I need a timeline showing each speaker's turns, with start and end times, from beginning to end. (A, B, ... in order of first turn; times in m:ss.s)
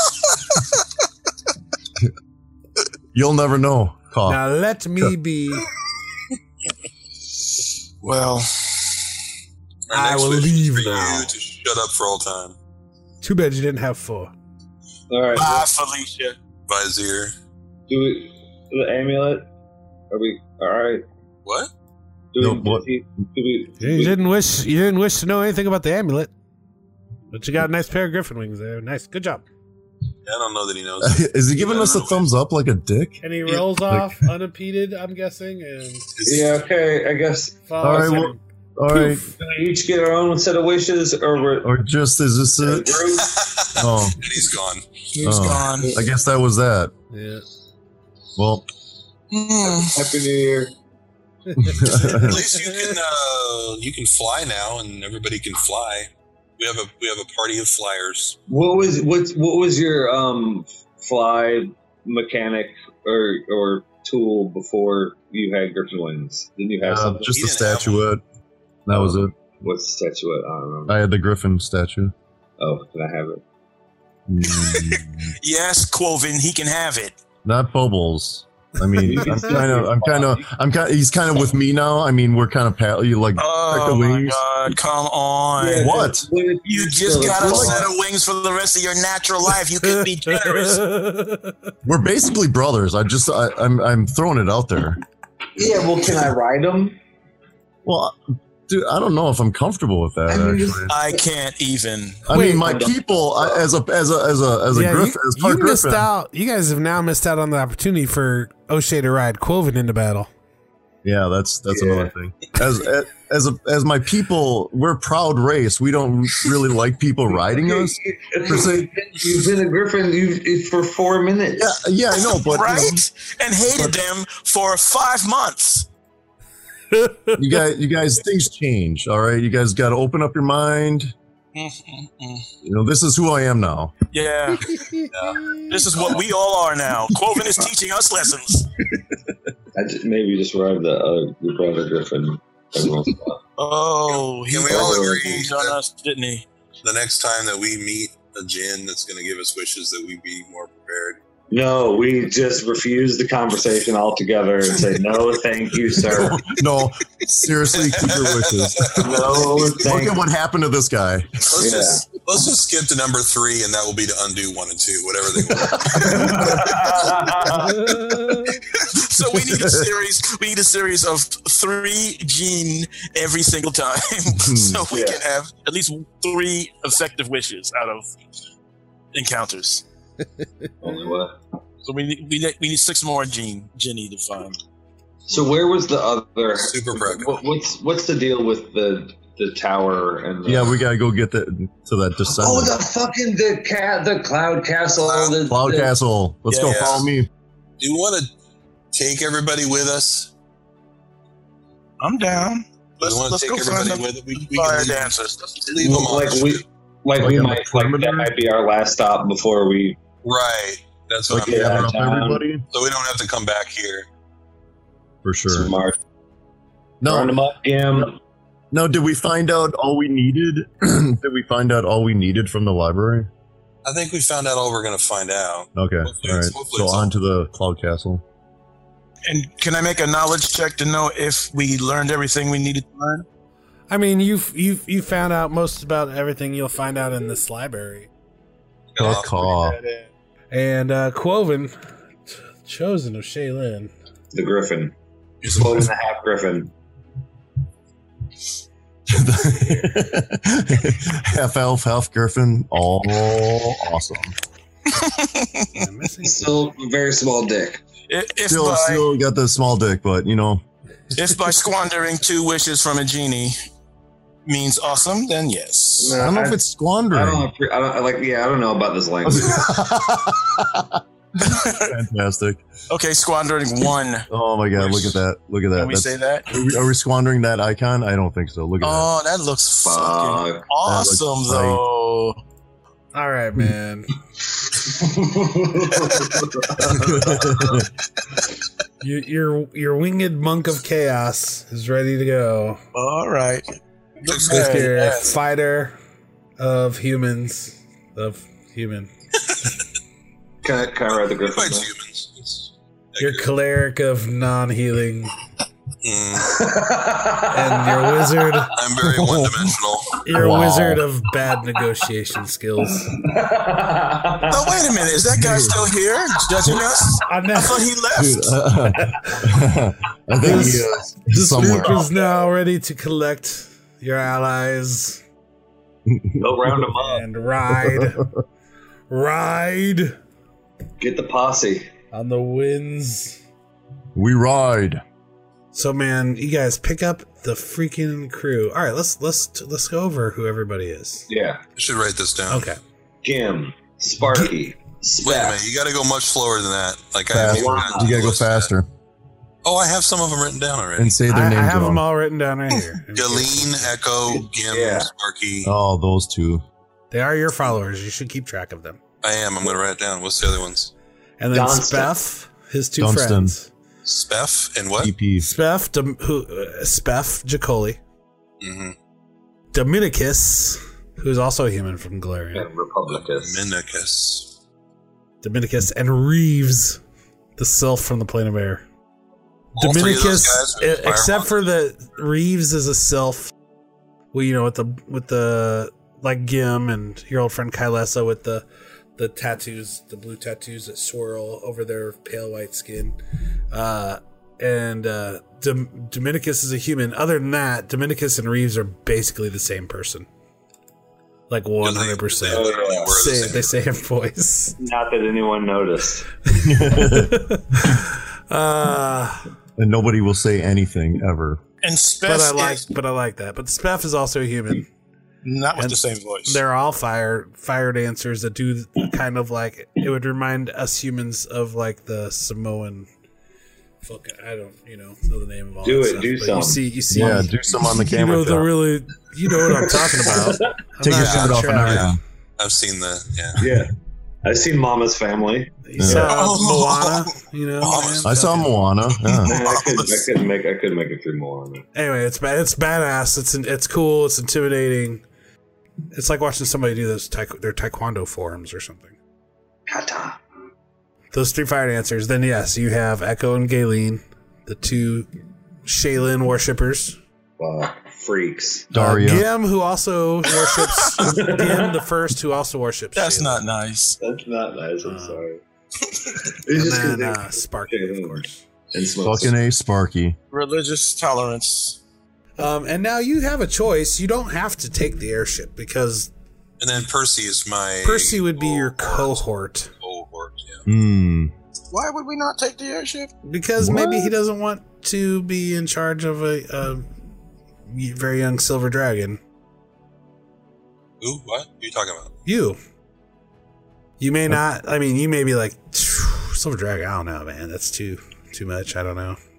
0:03.1-0:04.4 A
0:04.2-0:05.7 B
0:08.0-0:09.0 C
0:09.9-0:12.5 D
0:09.9-0:11.3 B
0:13.2-0:14.3 B
0:15.1-0:15.7 E
0:15.3-0:16.4 C
0:16.7-0:17.3 D
0:17.9-0:19.4 E
0:20.1-0:21.0 E
0:21.4-0:21.7 D
0:22.3-0:24.2 E
0:22.4-0:22.9 A
0:23.8-0:26.3 B
0:27.3-0:29.4 B
0:30.2-0:32.3 D
0:31.0-0:34.2 A
0:33.2-0:36.1 B
0:36.2-0:36.6 D
0:36.2-0:38.1 E
0:37.7-0:39.3 B
0:37.8-0:39.2 A
0:39.4-0:41.7 E
0:41.6-0:42.9 A
0:42.6-0:43.4 E
0:43.1-0:44.8 D
0:43.8-0:44.2 A
0:45.1-0:46.0 E
0:45.2-0:46.0 C
0:45.2-0:46.9 A
0:47.1-0:47.4 B
0:48.4-0:48.6 A
0:49.3-0:50.0 C
0:49.6-0:50.7 E
0:51.5-0:53.0 B
0:51.6-0:52.4 A
0:52.1-0:58.4 D
0:58.5-1:07.4 E
1:06.8-1:08.2 A
1:07.3-1:08.1 D
1:08.9-1:09.3 A
1:08.9-1:11.0 E
1:10.9-1:12.1 A
1:12.6-1:13.4 E
1:14.3-1:15.3 A
1:14.4-1:17.2 C
1:17.4-1:24.4 A
1:19.0-1:20.4 E
1:23.4-1:30.9 C
1:25.6-1:27.9 E
1:25.8-1:26.2 A
1:27.4-1:27.9 A
1:29.9-1:31.5 B
1:31.8-1:35.0 A
1:35.6-1:37.0 E
1:37.8-1:38.2 A
1:38.7-1:40.9 A
1:40.3-1:41.2 E
1:40.9-1:42.2 C
1:42.2-1:46.1 A
1:42.3-1:42.7 B
1:42.4-1:43.7 E
1:44.7-1:50.3 B
1:51.0-1:58.9 A
1:51.7-1:52.1 E
1:57.3-2:01.8 E
2:01.6-2:03.0 A
2:02.2-2:05.9 C
2:03.7-2:04.0 E
2:06.9-2:07.4 B
2:07.4-2:11.1 A
2:11.5-2:12.5 C
2:12.6-2:13.9 A
2:14.1-2:14.8 C
2:14.7-2:15.7 B
2:15.1-2:16.2 D
2:15.7-2:18.7 C
2:19.7-2:23.4 E
2:23.6-2:26.4 C
2:24.1-2:25.8 D
2:24.6-2:25.5 E
2:26.8-2:31.2 D
2:31.5-2:36.4 E
2:35.9-2:41.5 A
2:37.7-2:39.1 D
2:39.0-2:40.2 E
2:41.5-2:46.4 D
2:41.6-2:42.1 E
2:45.6-2:46.4 A
2:45.8-2:47.9 E
2:47.8-2:48.5 B
2:48.9-2:58.1 C
2:49.4-2:49.9 A
2:54.3-2:54.8 A
2:54.9-2:55.2 E
2:59.1-2:59.8 C
3:00.8-3:01.4 E
3:01.8-3:04.6 C
3:05.3-3:10.8 E
3:06.6-3:07.4 D
3:10.4-3:12.8 A
3:12.3-3:15.9 E
3:15.0-3:15.4 D
3:15.4-3:17.3 A
3:16.5-3:17.1 C
3:17.8-3:18.3 D
3:18.9-3:20.3 D
3:22.0-3:25.6 C
3:23.0-3:26.6 D
3:25.8-3:30.0 E
3:27.2-3:28.3 A
3:30.2-3:31.9 D
3:31.3-3:32.6 A
3:31.3-3:32.4 E
3:32.7-3:34.1 D
3:35.2-3:35.7 A
3:35.5-3:36.0 E
3:37.0-3:37.4 A
3:37.0-3:38.2 E
3:38.7-3:43.3 A
3:43.8-3:47.1 D
3:45.8-3:48.2 A
3:49.2-3:53.2 C
3:53.9-3:58.1 B
3:58.9-3:59.4 D
3:59.0-3:59.8 A
3:59.0-4:00.1 C
4:00.5-4:01.7 B
4:02.3-4:03.9 B
4:04.3-4:06.7 E
4:09.1-4:14.3 A
4:14.9-4:15.8 C
4:15.7-4:16.6 B
4:16.2-4:17.8 E
4:18.1-4:19.1 C
4:18.5-4:20.6 A
4:21.1-4:23.5 C
4:24.4-4:26.2 C
4:26.0-4:29.7 E
4:26.1-4:27.5 A
4:29.2-4:31.0 A
4:31.4-4:32.0 C
4:31.7-4:32.6 A
4:32.9-4:35.2 C
4:34.3-4:39.1 A
4:35.8-4:36.5 C
4:38.8-4:42.4 C
4:39.8-4:40.7 E
4:40.8-4:41.8 A
4:43.1-4:44.1 B
4:44.7-4:47.8 E
4:46.8-4:47.9 A
4:49.0-4:52.8 B
4:52.9-4:55.3 C
4:54.3-4:56.0 B
4:54.3-4:54.7 D
4:56.6-4:59.1 B
5:00.6-5:01.9 E
5:01.1-5:03.5 D
5:03.2-5:05.3 B
5:06.0-5:06.6 D
5:06.4-5:08.6 E
5:07.5-5:08.7 B
5:08.7-5:10.2 D
5:09.0-5:09.7 A
5:10.2-5:13.1 B
5:10.3-5:11.0 A
5:13.1-5:14.8 E
5:14.5-5:18.6 C
5:15.4-5:15.9 A
5:17.2-5:17.9 B
5:18.1-5:22.0 A
5:20.4-5:25.2 B
5:20.4-5:20.8 E
5:21.6-5:22.2 E
5:26.1-5:26.9 A
5:26.4-5:27.2 E
5:27.0-5:28.2 B
5:27.7-5:28.4 A
5:29.1-5:30.2 B
5:31.0-5:31.9 E
5:32.1-5:33.4 B
5:34.1-5:35.0 A
5:35.7-5:41.2 B
5:41.3-5:41.6 E
5:41.8-5:42.7 D
5:42.5-5:42.8 B
5:43.2-5:45.6 E
5:45.2-5:48.7 D
5:47.3-5:48.9 A
5:47.4-5:48.2 E
5:49.6-5:51.1 D
5:51.0-5:52.0 A
5:51.3-5:54.0 B
5:53.1-5:55.7 D
5:54.7-5:55.1 E
5:55.6-5:56.6 A
5:57.1-5:59.0 B
5:59.2-6:00.9 D
6:01.4-6:03.7 B
6:01.5-6:02.1 E
6:03.0-6:03.5 A
6:04.0-6:05.1 D
6:05.0-6:05.5 A
6:05.4-6:08.0 B
6:08.6-6:08.9 D
6:09.7-6:12.7 B
6:12.5-6:13.7 E
6:13.1-6:14.6 D
6:15.4-6:17.0 B
6:17.6-6:18.8 B
6:19.7-6:21.7 D
6:19.8-6:23.5 B
6:24.3-6:28.6 B
6:29.2-6:33.2 B
6:33.7-6:40.3 B
6:41.5-6:44.8 B
6:41.8-6:43.8 D
6:42.4-6:43.3 E
6:44.8-6:46.3 E
6:46.5-6:49.4 B
6:46.5-6:47.5 A
6:49.8-6:51.6 A
6:51.8-6:52.9 C
6:52.2-6:54.9 B
6:55.4-6:56.6 C
6:55.8-7:03.1 B
7:04.0-7:12.1 B
7:05.8-7:06.8 E
7:07.1-7:08.7 A
7:09.6-7:10.7 E
7:11.0-7:12.2 A
7:11.1-7:13.6 D
7:13.6-7:13.9 E
7:14.4-7:16.2 E
7:15.9-7:18.8 B
7:16.0-7:16.3 A
7:16.1-7:18.0 C
7:17.8-7:18.3 D
7:18.2-7:19.6 A
7:19.2-7:20.3 C
7:19.4-7:21.8 E
7:21.9-7:25.2 B
7:26.1-7:29.1 B
7:29.9-7:30.4 E
7:31.3-7:35.3 B
7:35.8-7:37.2 B
7:37.6-7:38.9 E
7:38.9-7:39.5 A
7:38.9-7:43.6 B
7:41.2-7:42.0 E
7:43.2-7:44.2 C
7:44.2-7:45.6 E
7:45.0-7:45.4 B
7:46.4-7:49.5 E
7:46.7-7:48.6 B
7:49.2-7:50.4 A
7:50.5-7:52.0 C
7:52.6-7:56.3 B
7:56.8-8:00.8 D
7:58.0-7:59.9 B
8:00.9-8:01.5 A
8:01.9-8:03.3 C
8:03.4-8:07.1 B
8:03.8-8:04.3 A
8:07.9-8:09.4 B
8:11.2-8:12.3 D
8:12.4-8:12.8 B
8:14.2-8:19.4 B